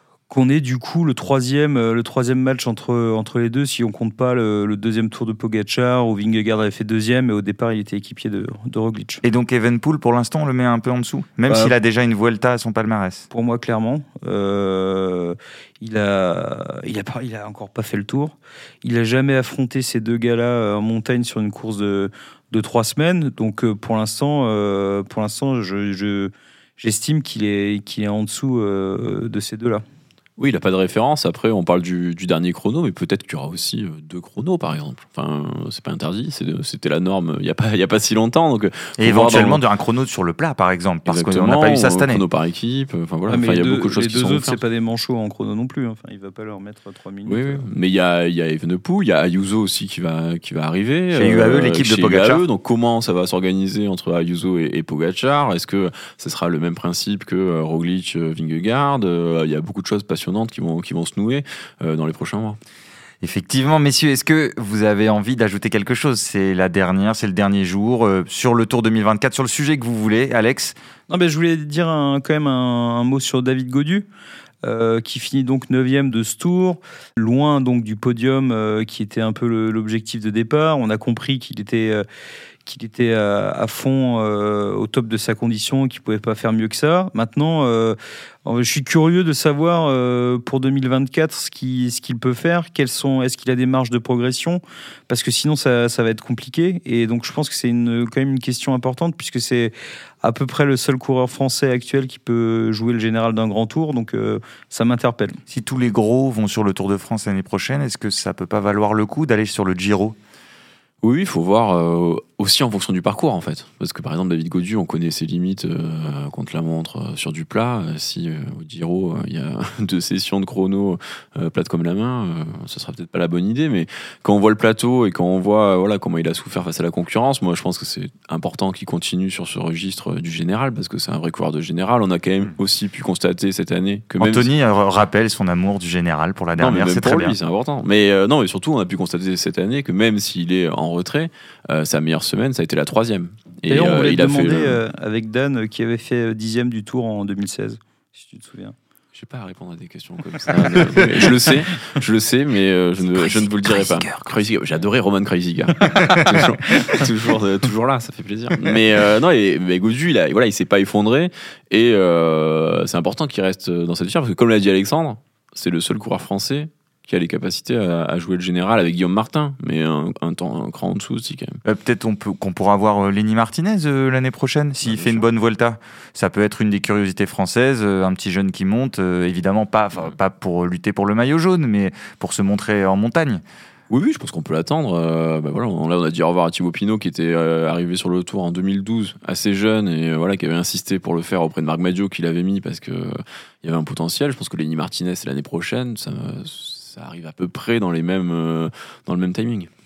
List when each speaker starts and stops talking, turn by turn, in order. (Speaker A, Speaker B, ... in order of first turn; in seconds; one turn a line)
Speaker A: 0.3-9.2
Speaker B: 9.2-13.3
Speaker A: 13.3-29.8
Speaker C: 30.4-39.6
Speaker B: 39.0-42.2
Speaker C: 41.1-44.6
Speaker A: 43.3-47.7
Speaker C: 47.3-62.6
Speaker B: 51.1-52.5
Speaker B: 63.2-70.8
Speaker A: 71.1-74.1
Speaker A: 74.6-82.0
Speaker A: 82.7-105.4
Speaker B: 105.5-110.2
Speaker C: 111.0-134.5
Speaker B: 134.2-137.4
Speaker C: 136.6-144.8
Speaker A: 143.7-148.8
Speaker C: 149.2-171.6
Speaker B: 151.0-151.3
Speaker B: 153.2-154.4
Speaker B: 155.9-157.0
Speaker B: 171.7-183.4
Speaker C: 174.9-175.2
Speaker C: 183.9-199.7